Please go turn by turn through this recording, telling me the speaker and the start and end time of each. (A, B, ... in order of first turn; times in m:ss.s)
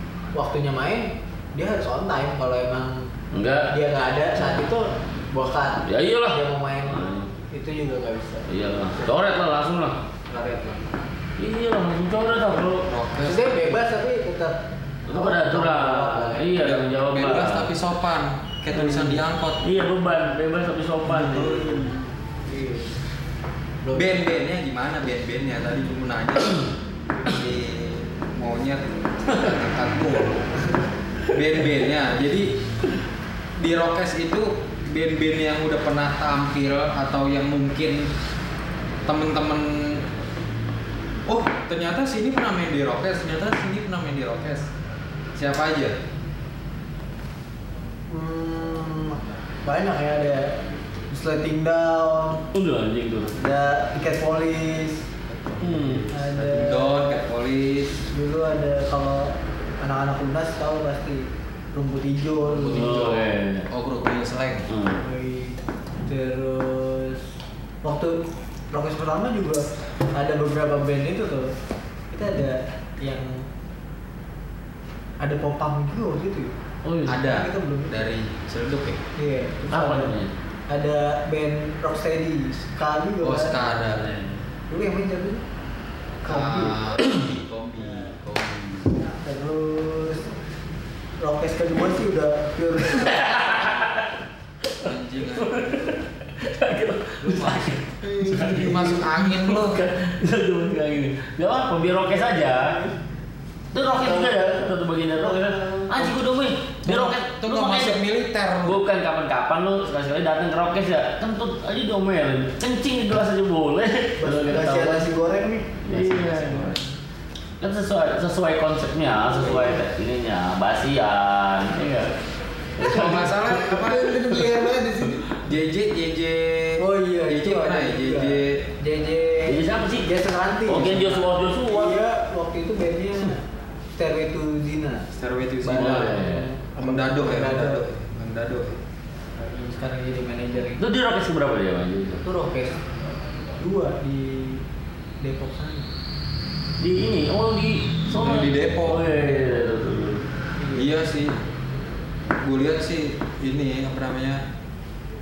0:00.3-0:03.1 A
0:03.3-0:03.7 B
0:03.7-0:08.5 A
0:04.4-0:04.6 B
0:05.9-0:07.3 B
0:08.5-0:10.0 B
0:10.3-0:10.8 A
0:11.4-0:12.9 B
0:12.9-0:13.7 C
0:13.2-0:16.6 A
0:15.1-0:17.7 B
0:16.6-0:19.6 C
0:18.7-0:21.8 B
0:21.1-0:21.8 C
0:21.6-0:21.9 A
0:22.4-0:23.0 A
0:23.8-0:24.3 A
0:23.9-0:26.7 C
0:27.2-0:30.6 C
0:31.2-0:32.5 C
0:33.6-0:38.1 C
0:39.1-0:40.0 C
0:41.3-0:44.7 C
0:45.4-0:46.0 C
0:48.1-0:52.5 A
0:52.5-0:53.4 B
0:53.4-0:55.1 A
0:55.3-0:58.0 C
0:55.6-0:56.1 B
0:56.1-0:57.2 A
0:58.1-1:03.0 A
1:02.5-1:04.7 C
1:02.7-1:03.7 B
1:04.7-1:05.0 B
1:05.0-1:07.2 A
1:07.8-1:11.5 A
1:12.1-1:13.5 A
1:15.2-1:16.5 A
1:16.8-1:17.2 B
1:17.1-1:19.0 C
1:17.2-1:18.1 A
1:19.2-1:20.1 A
1:19.7-1:20.3 B
1:20.7-1:24.0 A
1:23.2-1:24.1 C
1:23.9-1:24.4 B
1:24.7-1:25.4 A
1:26.2-1:26.9 A
1:26.3-1:29.0 C
1:27.8-1:28.2 A
1:29.0-1:30.3 A
1:31.2-1:33.5 A
1:32.9-1:34.1 B
1:34.6-1:42.8 B
1:34.8-1:36.0 C
1:37.2-1:39.8 C
1:38.0-1:39.0 A
1:42.0-1:43.0 A
1:43.7-1:48.0 B
1:43.7-1:46.1 A
1:46.8-1:48.8 C
1:48.6-1:55.1 B
1:54.2-1:56.9 A
1:55.8-1:56.8 B
1:57.6-2:02.1 B
1:59.2-1:59.8 A
2:02.8-2:03.8 B
2:02.8-2:08.6 C
2:03.6-2:05.2 A
2:06.8-2:13.4 A
2:09.5-2:10.1 B
2:10.6-2:12.0 B
2:14.0-2:15.1 A
2:15.1-2:16.2 C
2:15.6-2:17.8 A
2:15.7-2:16.5 B
2:16.8-2:18.8 C
2:19.4-2:20.8 A
2:20.8-2:22.2 B
2:22.2-2:22.8 A
2:23.6-2:24.6 A
2:25.2-2:25.9 A
2:26.8-2:30.3 B
2:28.2-2:29.1 C
2:30.6-2:31.1 A
2:30.7-2:31.4 C
2:32.4-2:34.4 C